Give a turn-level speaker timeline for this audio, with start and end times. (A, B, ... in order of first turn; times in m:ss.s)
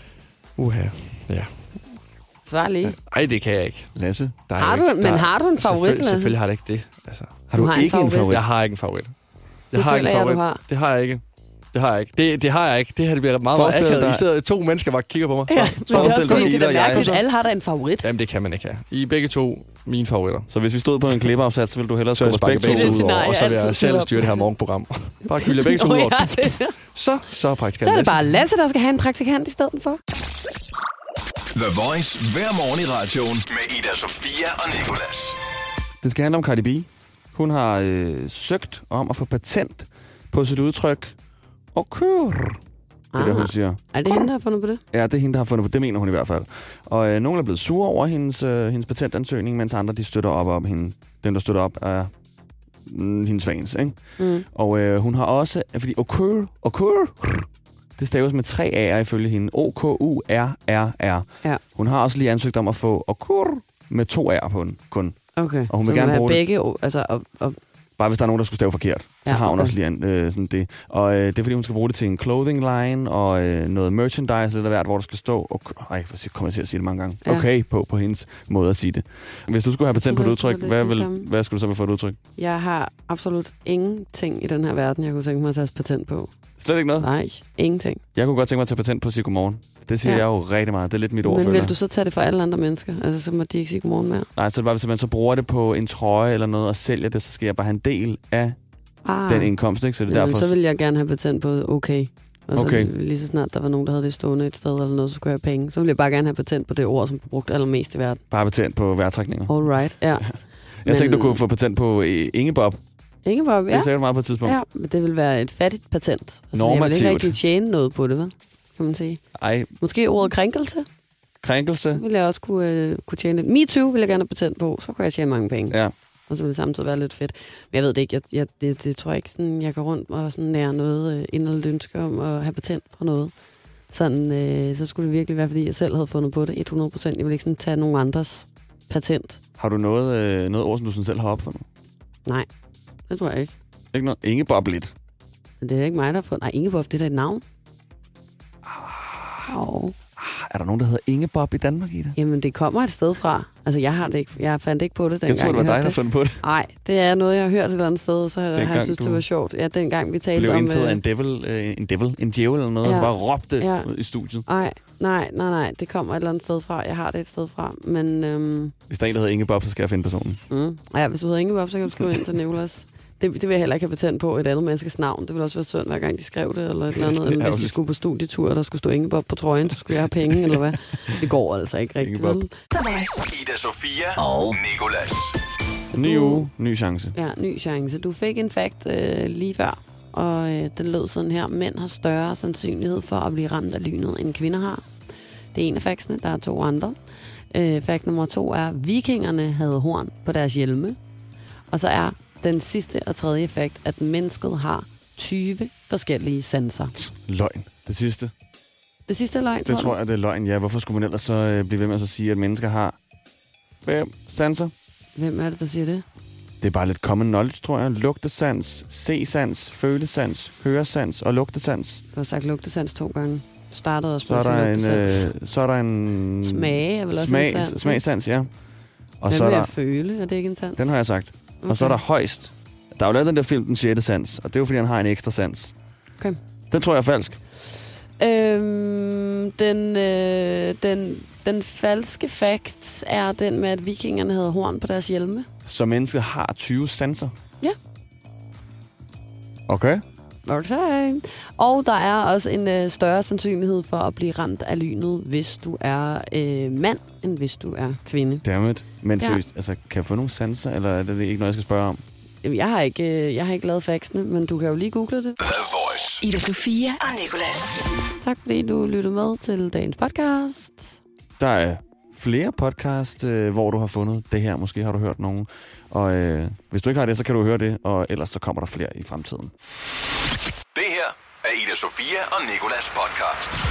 0:00.6-0:02.0 A
0:02.5-0:03.0 B
0:02.8-0:04.0 A
0:04.0-0:04.4 C
0:04.5-0:07.5 A
0:04.6-0:06.4 B
0:07.5-0:08.4 C
0:07.5-0:08.4 B
0:08.3-0:09.1 A
0:09.7-0:11.2 A
0:09.7-0:10.6 B
0:11.7-0:17.2 A
0:13.5-0:14.2 C
0:15.5-0:18.1 B
0:15.9-0:17.1 C
0:18.0-0:20.5 A
0:20.5-0:23.2 C
0:22.2-0:28.4 A
0:22.6-0:24.5 B
0:25.3-0:26.8 B
0:27.8-0:30.0 B
0:31.5-0:35.4 D
0:36.0-0:41.2 C
0:41.7-0:42.6 C
0:43.1-0:44.8 B
0:43.2-0:44.3 C
0:44.9-0:52.1 C
0:52.9-1:06.4 C
0:54.2-0:54.5 B
1:05.4-1:07.6 B
1:08.0-1:22.2 C
1:09.2-1:09.8 B
1:20.0-1:21.3 B
1:22.4-1:26.3 B
1:26.6-1:27.1 C
1:27.0-1:28.0 B
1:28.2-1:31.8 C
1:31.2-1:34.3 B
1:34.4-1:38.6 C
1:39.0-1:39.5 B
1:39.3-1:40.5 C
1:40.1-1:48.2 B
1:42.5-1:42.9 C
1:48.3-1:52.8 C
1:49.5-1:51.4 B
1:53.2-1:59.2 B
1:53.7-1:54.6 C
1:56.5-1:57.4 C
1:59.4-1:59.7 C
1:59.8-2:00.9 B
2:01.4-2:02.0 C
2:02.0-2:13.3 B
2:13.9-2:19.4 B
2:19.6-2:21.6 C
2:23.1-2:23.5 B
2:23.9-2:24.9 C
2:25.6-2:27.4 B
2:28.6-2:29.5 C
2:29.5-2:30.0 B
2:30.2-2:32.2 C
2:32.2-2:41.0 B
2:35.3-2:36.4 C
2:38.6-2:39.2 C
2:40.4-2:44.4 C
2:42.8-2:43.9 B
2:44.5-2:48.7 B
2:48.9-2:50.4 C
2:50.5-3:02.5 B
2:57.0-2:57.7 C
3:02.0-3:02.4 C
3:02.7-3:03.2 E
3:03.2-3:05.4 D
3:04.2-3:04.5 E
3:05.9-3:06.5 B
3:05.9-3:07.2 C
3:07.2-3:14.8 B
3:15.5-3:17.0 B
3:17.5-3:21.0 B
3:21.7-3:27.0 B
3:27.0-3:28.3 C
3:29.1-3:30.0 B
3:29.6-3:33.0 C
3:33.8-3:34.7 C
3:35.2-3:36.0 B
3:36.6-3:42.0 C
3:42.1-3:45.3 B
3:44.2-3:48.5 C
3:46.4-3:48.0 B
3:49.2-3:49.7 C
3:49.3-3:50.9 B
3:50.8-3:55.7 C
3:51.6-3:52.0 B
3:56.7-3:57.4 C
3:58.2-4:05.5 B
4:05.7-4:07.3 C
4:09.7-4:10.0 C
4:10.5-4:18.4 B
4:18.4-4:22.0 C
4:22.4-4:25.4 B
4:25.4-4:26.2 D
4:26.2-4:27.8 E
4:28.2-4:30.9 B
4:31.4-4:39.5 C
4:40.7-4:43.6 D